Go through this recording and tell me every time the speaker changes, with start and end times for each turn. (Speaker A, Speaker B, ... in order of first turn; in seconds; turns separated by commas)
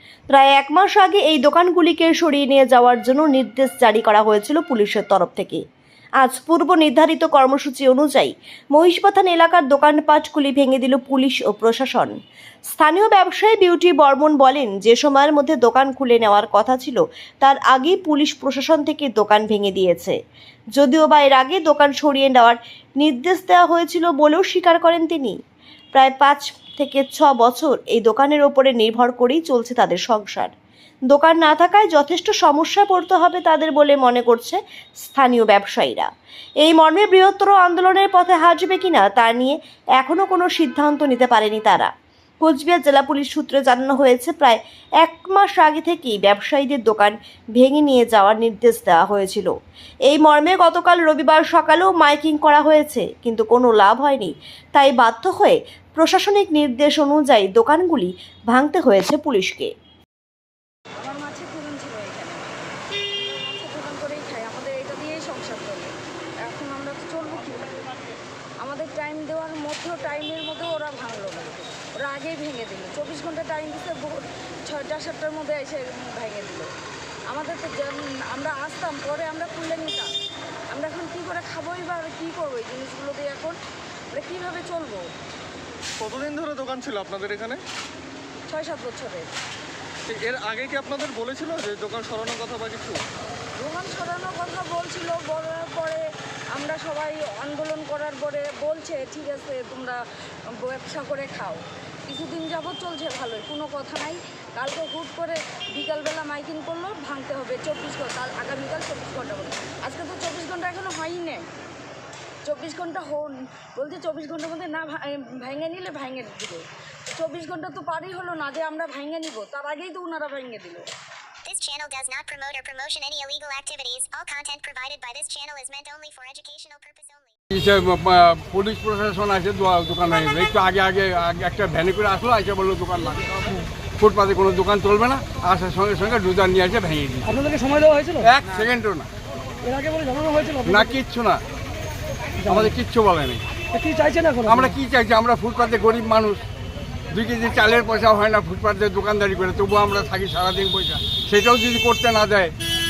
Speaker A: 0.3-5.6, Speaker A: 6.2-12.2, Speaker A: 12.7-20.2, Speaker A: 20.8-25.4, Speaker A: 25.9-30.5, Speaker A: 31.1-36.1, Speaker A: 36.6-41.9, Speaker A: 42.4-49.5, Speaker A: 50.1-59.7, Speaker B: 61.0-62.5, Speaker B: 63.1-65.9, Speaker B: 66.5-68.1, Speaker B: 68.6-76.7, Speaker B: 77.3-80.1, Speaker B: 80.7-83.6, Speaker B: 84.1-85.1, Speaker C: 86.0-87.6, Speaker B: 88.5-89.3, Speaker C: 90.1-93.0, Speaker B: 93.6-100.0, Speaker B: 100.6-111.5, Speaker B: 112.5-120.9, Speaker D: 121.5-127.3, Speaker E: 127.5-137.3, Speaker F: 137.3-138.3, Speaker E: 138.2-139.1, Speaker F: 139.7-140.9, Speaker E: 140.7-141.4, Speaker F: 142.4-142.7, Speaker E: 142.5-143.4, Speaker F: 143.8-144.7, Speaker E: 144.5-146.4, Speaker E: 147.1-152.5